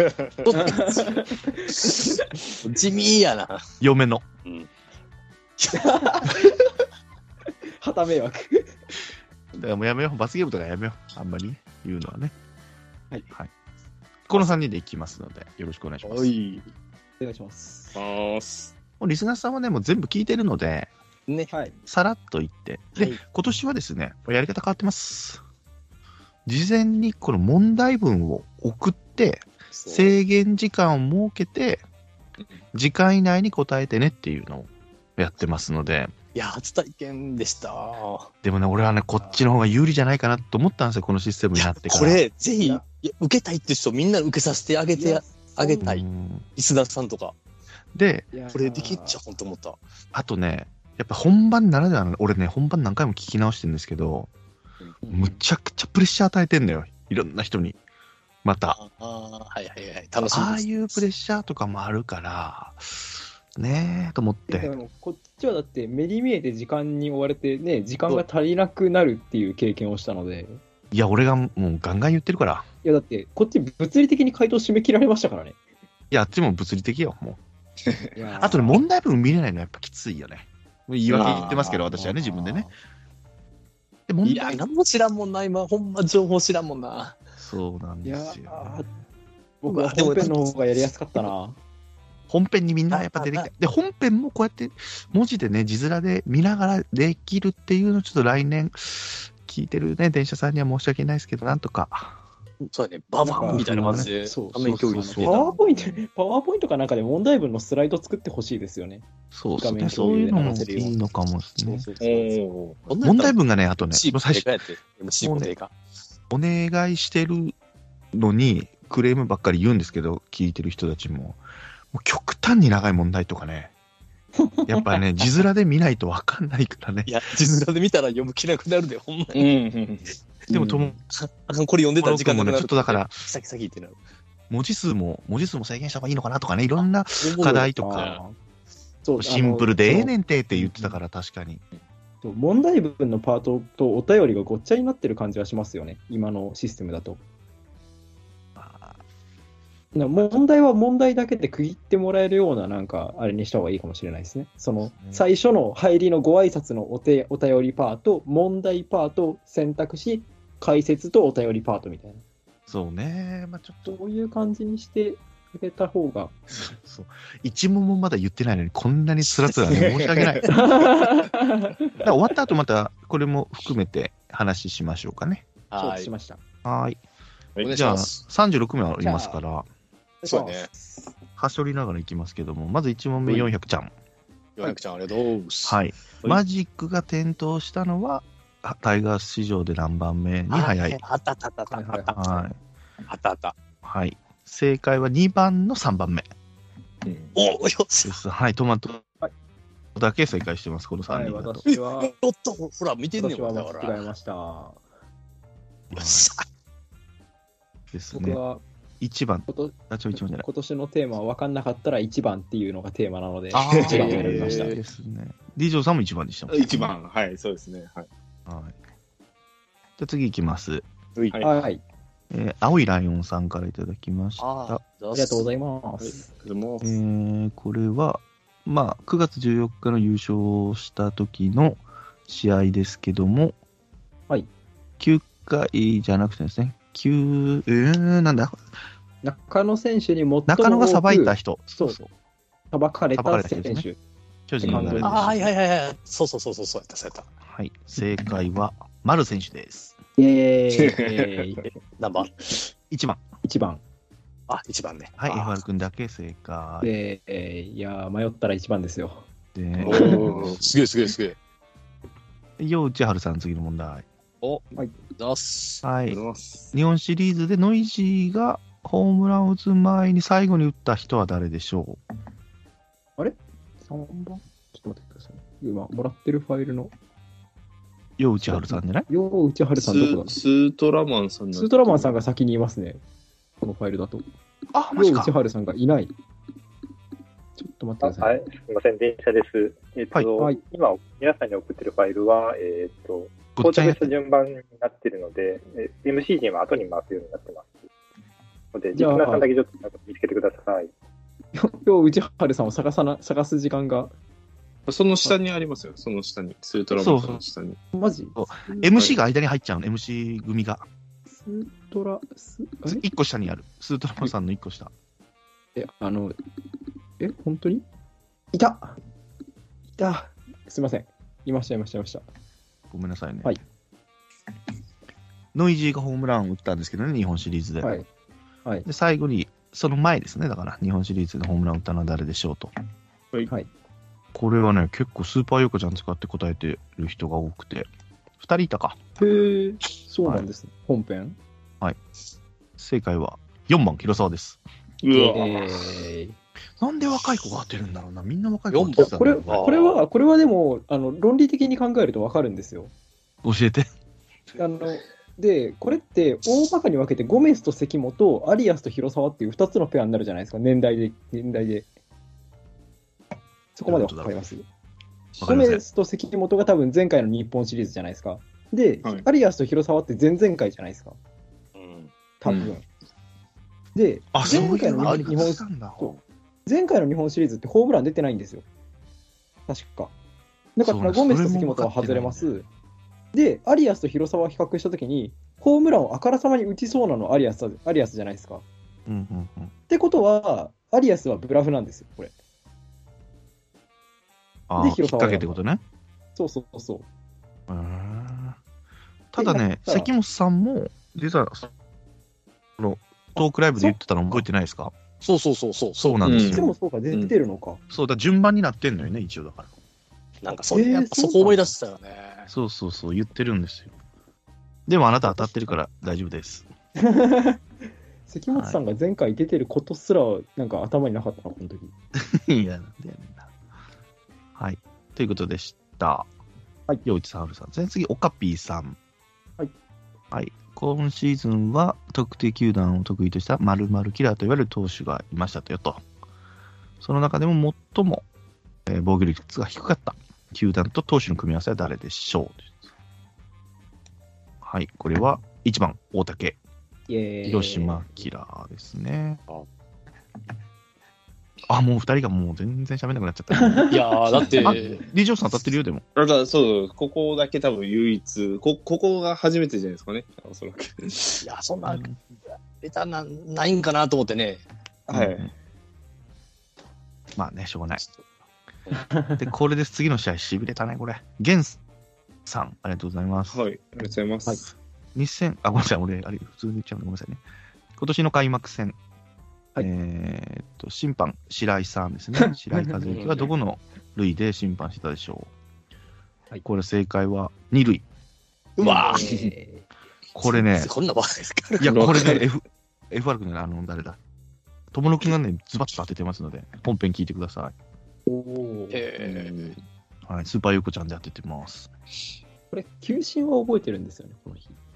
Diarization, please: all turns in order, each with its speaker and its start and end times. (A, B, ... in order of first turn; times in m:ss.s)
0:00.4-0:03.6 A
0:00.5-0:02.5 B
0:03.8-0:04.2 C
0:05.6-0:06.1 A
0:05.7-0:06.6 B
0:07.8-0:08.7 B
0:09.5-0:12.3 C
0:14.3-0:16.3 C
0:16.0-0:16.7 A
0:17.2-0:18.0 B
0:18.0-0:18.6 D
0:19.0-0:20.9 C
0:21.5-0:21.7 B
0:21.9-0:25.4 C
0:26.4-0:31.8 C
0:29.7-0:30.2 A
0:32.7-0:36.1 C
0:36.3-0:38.3 A
0:38.4-0:42.2 C
0:39.2-0:39.4 B
0:41.5-0:46.0 A
0:45.0-0:45.8 B
0:45.8-0:46.4 C
0:46.6-0:47.4 A
0:47.9-0:48.3 C
0:48.3-0:49.2 B
0:48.5-0:49.8 A
0:50.1-0:54.3 C
0:55.0-0:55.4 B
0:55.1-0:57.8 C
0:58.4-0:58.8 C
0:58.7-1:00.8 A
1:00.2-1:04.7 C
1:04.5-1:10.6 B
1:10.9-1:12.6 C
1:12.8-1:15.6 B
1:16.1-1:17.4 C
1:18.1-1:18.8 B
1:18.4-1:22.7 C
1:21.1-1:22.4 A
1:21.2-1:21.6 D
1:22.2-1:22.7 B
1:24.1-1:24.6 C
1:24.2-1:27.2 A
1:27.4-1:28.9 C
1:28.0-1:28.9 B
1:29.6-1:31.6 B
1:29.7-1:30.6 A
1:32.3-1:42.2 C
1:32.9-1:33.5 A
1:42.7-1:45.5 A
1:43.2-1:49.0 B
1:43.3-1:45.4 C
1:49.3-1:51.8 C
1:49.6-1:51.0 B
1:50.1-1:50.9 A
1:51.6-1:51.9 B
1:51.8-1:55.7 A
1:52.0-1:52.9 D
1:53.0-1:54.5 C
1:55.2-1:55.5 C
1:56.3-1:57.5 C
1:58.1-2:01.4 C
2:01.9-2:03.7 C
2:04.4-2:05.0 B
2:04.7-2:07.2 C
2:07.1-2:09.5 A
2:09.3-2:10.1 D
2:10.5-2:11.0 C
2:10.5-2:14.0 A
2:12.0-2:13.2 C
2:14.5-2:18.2 C
2:17.2-2:18.2 A
2:17.8-2:18.4 B
2:19.0-2:20.1 B
2:19.2-2:21.6 C
2:22.2-2:27.2 B
2:28.6-2:29.0 C
2:29.9-2:42.2 B
2:42.7-2:44.0 C
2:43.8-2:46.4 B
2:46.6-2:50.5 C
2:49.5-2:50.0 A
2:49.9-2:50.4 D
2:50.5-2:52.0 B
2:52.0-2:55.4 C
2:55.7-2:56.1 A
2:55.8-2:56.4 B
2:56.6-2:57.0 C
2:57.6-2:57.9 D
2:57.6-2:58.2 A
2:57.7-2:59.7 C
2:59.0-2:59.4 B
3:00.2-3:01.1 B
3:00.2-3:00.7 A
3:01.4-3:03.9 C
3:04.6-3:05.8 A
3:05.6-3:11.0 C
3:10.5-3:12.4 A
3:11.7-3:12.3 B
3:12.2-3:12.6 C
3:13.1-3:13.6 A
3:13.8-3:16.3 C
3:17.0-3:17.3 D
3:17.3-3:18.2 A
3:18.0-3:19.0 C
3:20.0-3:21.6 C
3:21.1-3:22.1 B
3:21.7-3:24.0 A
3:23.2-3:24.8 B
3:25.9-3:26.3 C
3:25.9-3:26.4 A
3:27.9-3:28.4 C
3:28.1-3:28.6 B
3:29.0-3:30.4 C
3:29.5-3:34.7 B
3:33.5-3:36.9 C
3:33.7-3:34.7 D
3:33.8-3:34.7 A
3:36.5-3:38.1 D
3:38.5-3:38.8 C
3:40.0-3:40.8 C
3:41.3-3:41.6 D
3:41.4-3:41.8 B
3:42.3-3:44.8 C
3:44.4-3:45.4 A
3:45.1-3:46.3 B
3:46.0-3:47.0 D
3:46.8-3:53.5 C
3:55.0-3:58.6 C
3:59.2-4:02.0 B
4:00.5-4:02.1 C
4:02.7-4:04.0 B
4:03.1-4:03.8 C
4:04.5-4:05.5 C
4:04.6-4:05.3 B
4:04.7-4:05.0 D
4:05.0-4:07.3 A
4:07.4-4:10.0 C
4:10.2-4:11.7 B
4:10.7-4:11.6 D
4:12.0-4:12.5 A
4:12.9-4:13.2 C
4:13.4-4:13.8 B
4:14.5-4:15.6 A
4:15.2-4:16.9 C
4:16.8-4:19.3 B
4:19.5-4:20.7 C
4:19.8-4:20.6 D
4:19.8-4:21.4 A
4:22.6-4:24.0 C
4:24.4-4:25.8 A
4:25.8-4:26.2 C
4:26.1-4:26.7 D
4:26.7-4:32.0 C
4:33.2-4:36.9 B
4:38.2-4:39.1 C
4:38.5-4:40.3 B
4:39.8-4:42.1 D
4:41.5-4:43.0 B
4:43.6-4:44.2 B
4:44.7-4:45.3 C
4:44.9-4:46.1 B
4:47.6-4:48.4 B
4:48.0-4:57.7 E
4:53.6-4:54.1 C
4:58.7-5:00.9 E
4:58.9-4:59.5 B
5:01.5-5:04.1 B
5:04.9-5:07.8 D
5:06.9-5:07.4 C
5:07.9-5:08.8 B
5:08.4-5:10.8 C
5:11.3-5:13.0 B
5:12.9-5:14.9 C
5:15.8-5:16.4 B
5:17.2-5:17.8 B
5:18.5-5:19.0 B
5:20.0-5:22.2 B
5:22.9-5:23.6 C
5:25.5-5:28.0 C
5:27.8-5:28.1 B
5:28.8-5:32.7 C
5:34.3-5:37.9 C
5:38.4-5:39.0 C
5:39.2-5:41.4 B
5:42.8-5:44.6 C
5:45.0-5:45.9 D
5:45.1-5:46.4 B
5:46.8-5:49.7 C
5:48.7-5:50.0 A
5:49.0-5:52.9 B
5:53.4-5:53.9 C
5:54.6-6:01.9 B
6:03.8-6:04.6 B
6:03.9-6:04.4 C
6:05.4-6:05.8 C
6:05.4-6:11.2 B
6:11.8-6:12.1 A
6:12.4-6:12.8 B
6:12.5-6:12.8 D
6:13.9-6:18.6 B
6:14.3-6:16.2 C
6:15.0-6:15.5 A
6:19.7-6:20.1 B
6:20.8-6:22.6 B
6:20.8-6:22.5 C
6:23.3-6:28.6 B
6:29.1-6:29.7 C
6:29.9-6:32.3 B
6:34.7-6:35.8 C
6:34.8-6:35.6 B
6:36.4-6:37.1 B
6:37.7-6:38.6 C
6:39.3-6:41.7 C
6:39.4-6:40.1 B
6:42.8-6:44.9 C
6:45.2-6:46.4 A
6:46.0-6:46.7 C
6:46.2-6:47.3 D
6:46.4-6:47.8 B
6:47.9-6:49.7 C
6:50.4-6:52.5 A
6:50.7-6:51.7 B
6:52.5-6:53.9 C
6:54.9-6:56.7 C
6:57.0-6:57.6 B
6:58.3-7:01.9 B
6:58.5-6:58.8 C
7:02.2-7:03.5 C
7:04.6-7:06.3 C
7:07.0-7:09.0 C
7:10.3-7:16.0 C
7:17.0-7:18.2 C
7:18.8-7:22.8 C
7:24.6-7:26.6 C
7:27.1-7:28.2 B
7:27.4-7:29.4 C
7:31.7-7:33.9 C
7:33.6-7:34.0 B
7:33.9-7:35.0 A
7:34.5-7:36.0 C
7:36.2-7:41.4 D
7:41.4-7:42.1 A
7:41.9-7:42.2 C
7:42.8-7:44.6 A
7:45.1-7:45.5 D
7:45.1-7:45.5 C
7:47.4-7:48.0 C
7:48.9-7:49.4 B
7:49.3-7:51.8 C
7:52.4-7:53.6 C
7:53.5-7:54.6 D
7:55.1-7:57.4 C
7:58.0-7:59.0 C
7:59.8-8:05.5 C
8:03.0-8:03.5 A
8:06.6-8:08.0 C
8:08.8-8:09.5 A
8:08.8-8:09.5 D
8:09.0-8:09.8 B
8:10.3-8:10.9 C
8:10.4-8:12.4 A
8:11.8-8:14.2 C
8:11.8-8:12.4 D
8:14.9-8:17.7 C
8:18.2-8:19.0 B
8:18.9-8:19.7 A
8:19.2-8:19.8 D
8:20.2-8:21.9 C
8:22.7-8:24.8 B